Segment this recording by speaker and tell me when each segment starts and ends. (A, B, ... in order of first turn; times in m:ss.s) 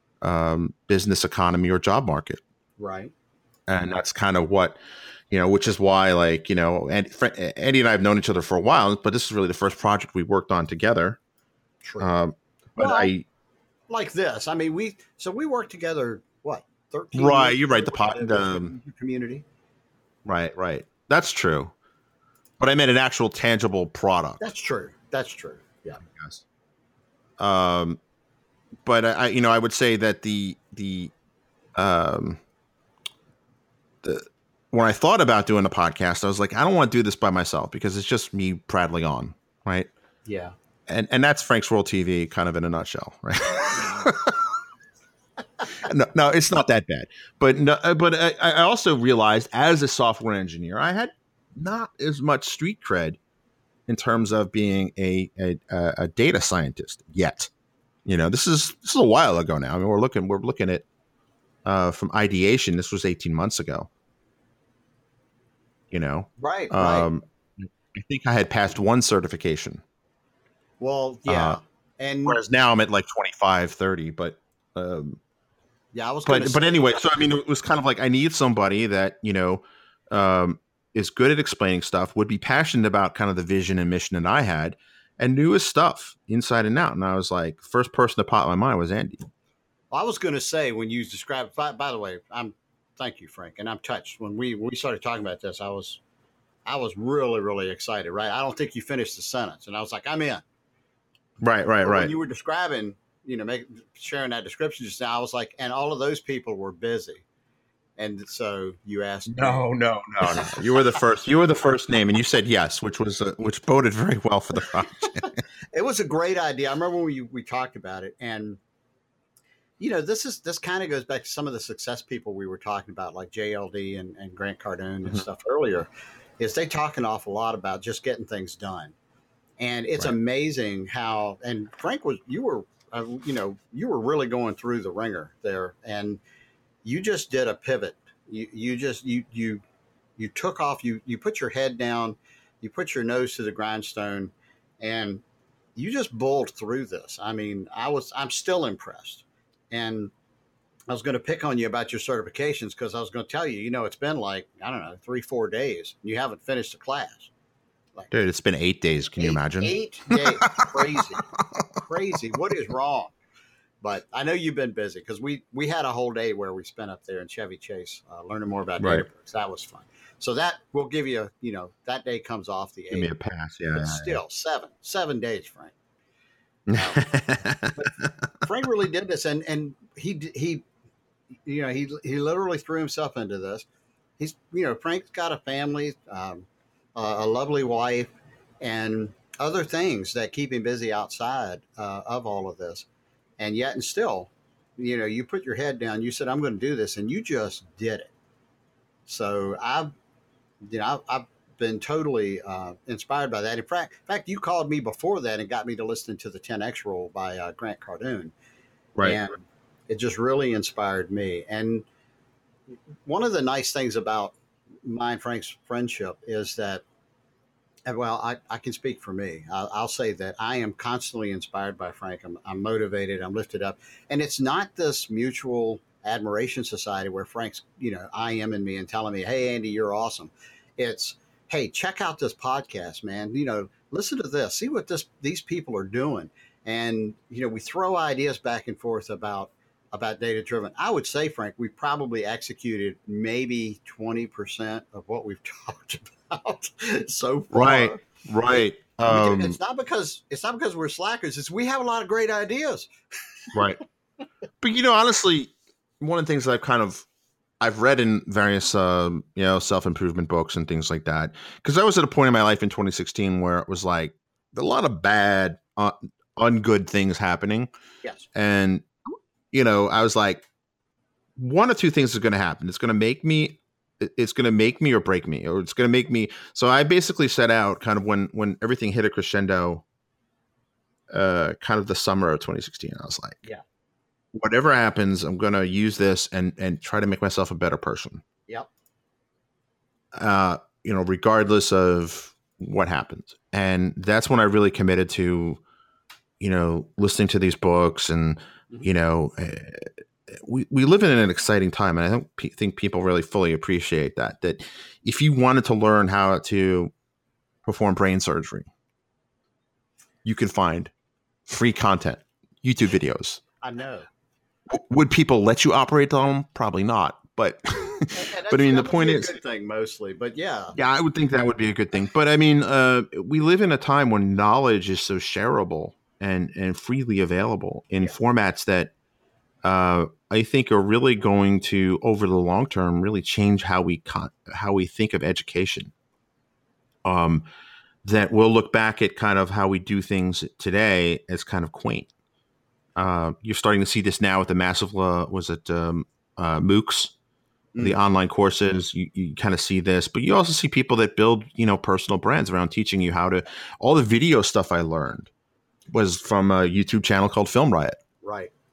0:00.2-0:02.4 A
0:02.8-0:03.1 B
0:03.7-0:04.8 A
0:05.3-0:11.2 A
0:11.8-0:12.1 B
0:12.0-0:13.3 A
0:12.8-0:13.1 B
0:13.9-0:19.4 B
0:17.1-0:18.7 A
0:20.2-0:21.7 A
0:22.6-0:24.4 A
0:24.4-0:26.0 B
0:26.1-0:26.4 A
0:27.4-0:28.0 A
0:28.8-0:31.1 A
0:31.8-0:32.4 A
0:34.0-0:39.9 A
0:40.2-0:40.5 B
0:40.9-0:44.5 A
0:45.7-0:53.2 A
0:53.9-0:57.5 A
0:58.0-1:00.9 A
1:01.6-1:03.9 A
1:05.9-1:09.8 A
1:06.4-1:07.1 B
1:10.8-1:12.4 B
1:11.3-1:11.6 A
1:12.3-1:15.2 A
1:15.9-1:16.7 B
1:16.3-1:29.3 A
1:29.9-1:36.0 B
1:36.6-1:40.4 B
1:41.4-1:42.1 A
1:41.8-1:47.2 B
1:48.0-1:49.6 B
1:49.3-1:55.4 A
1:50.2-1:51.0 B
1:55.2-1:58.6 B
1:59.8-2:08.9 B
2:09.6-2:16.2 B
2:16.8-2:19.6 B
2:20.2-2:25.2 B
2:25.8-2:30.1 B
2:30.9-2:37.3 B
2:38.1-2:40.8 A
2:39.2-2:41.3 B
2:41.8-2:43.2 B
2:43.8-2:53.1 B
2:48.8-2:49.1 A
2:52.9-2:54.2 A
2:53.8-2:55.8 B
2:56.7-2:58.1 A
2:56.7-2:57.0 B
2:57.8-3:00.6 B
3:01.5-3:03.6 B
3:04.2-3:12.9 B
3:13.4-3:18.1 B
3:19.1-3:19.9 B
3:20.6-3:28.3 B
3:29.0-3:31.9 B
3:33.0-3:34.3 B
3:34.8-3:36.8 B
3:37.9-4:12.9 B
4:07.5-4:09.6 A
4:13.5-4:13.8 A
4:14.6-4:17.1 A
4:17.6-4:27.7 A
4:28.3-4:30.4 A
4:31.4-4:39.8 A
4:41.1-4:43.4 A
4:44.3-4:48.2 A
4:50.1-4:55.6 A
4:56.4-5:06.9 A
5:07.6-5:08.7 A
5:10.2-5:10.9 A
5:11.5-5:13.4 A
5:13.6-5:14.1 B
5:14.7-5:19.4 A
5:18.2-5:20.8 B
5:20.8-5:28.9 A
5:29.6-5:35.9 A
5:37.0-5:37.4 A
5:38.0-5:42.1 A
5:43.0-5:47.1 A
5:47.8-5:55.3 A
5:55.9-5:58.0 A
5:58.2-5:58.5 B